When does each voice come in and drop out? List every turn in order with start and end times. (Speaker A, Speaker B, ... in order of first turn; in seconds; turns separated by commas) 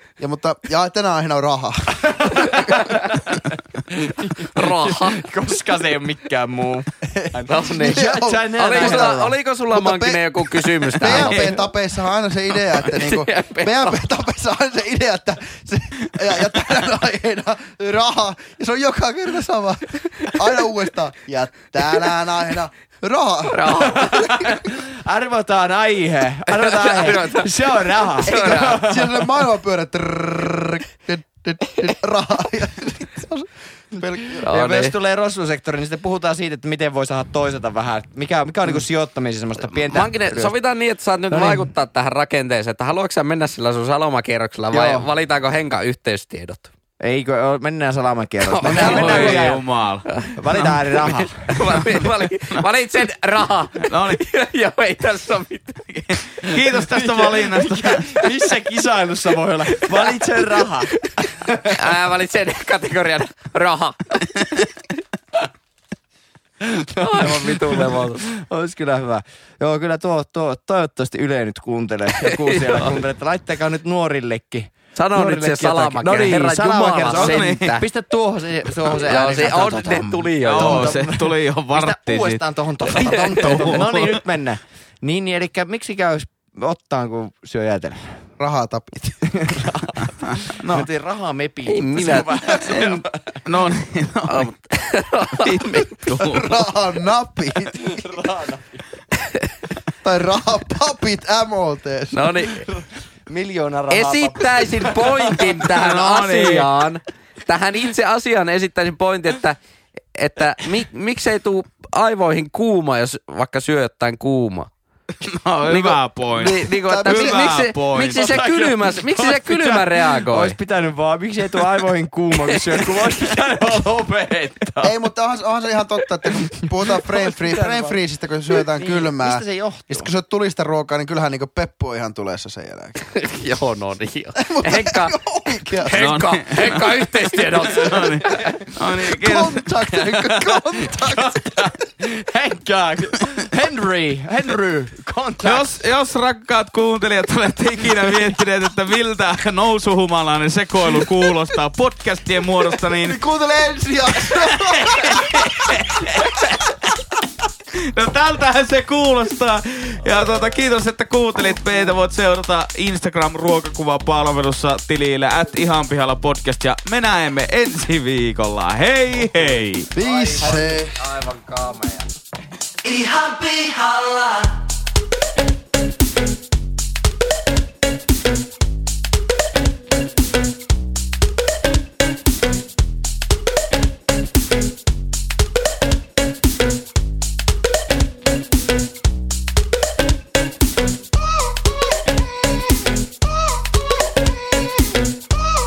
Speaker A: 0.2-3.1, Speaker B: 2.1-9.3, Speaker C: 4.4-5.2, Speaker C: 7.4-11.6, Speaker A: 7.8-9.2, Speaker A: 9.7-24.6, Speaker D: 11.1-11.5, Speaker C: 12.7-14.0, Speaker C: 23.4-24.7, Speaker B: 23.7-29.2, Speaker C: 26.6-28.9, Speaker A: 28.2-34.4, Speaker B: 34.4-40.5, Speaker C: 34.4-35.0, Speaker C: 39.6-46.7, Speaker B: 41.3-41.6, Speaker B: 44.7-45.1, Speaker B: 47.0-49.6, Speaker C: 48.4-49.5, Speaker D: 48.6-50.6, Speaker A: 48.7-49.3, Speaker C: 50.1-50.3, Speaker B: 50.3-51.5, Speaker C: 51.4-56.2, Speaker D: 51.6-52.6, Speaker D: 53.8-54.2, Speaker D: 56.4-58.2, Speaker B: 56.8-61.7, Speaker C: 61.6-64.6, Speaker B: 66.6-88.2, Speaker C: 67.0-68.2, Speaker C: 72.7-72.9, Speaker C: 74.9-77.8, Speaker D: 77.1-77.7, Speaker C: 78.9-80.9, Speaker D: 80.4-84.2, Speaker C: 83.0-83.8, Speaker A: 88.4-89.7, Speaker B: 89.3-93.3, Speaker D: 90.6-90.8, Speaker C: 91.7-92.3, Speaker D: 92.5-94.5, Speaker C: 94.3-96.1, Speaker D: 95.4-96.6, Speaker A: 96.2-98.0, Speaker B: 97.8-98.8, Speaker A: 100.0-102.3, Speaker C: 102.1-102.6, Speaker B: 102.5-105.6, Speaker C: 103.9-109.6, Speaker D: 105.6-106.7, Speaker C: 110.1-114.7, Speaker D: 115.2-118.5, Speaker C: 115.7-120.5, Speaker A: 116.7-117.6, Speaker B: 118.2-125.0, Speaker A: 124.8-133.1, Speaker B: 126.3-128.0, Speaker B: 128.5-130.1, Speaker C: 133.1-135.1, Speaker A: 134.4-136.0, Speaker C: 135.8-138.6, Speaker D: 135.9-140.3, Speaker A: 139.1-141.7, Speaker B: 141.0-145.7, Speaker D: 145.4-153.2, Speaker A: 153.0-156.5, Speaker D: 154.2-157.0, Speaker D: 157.8-169.9, Speaker A: 169.9-170.9, Speaker C: 170.0-172.1, Speaker C: 172.8-174.5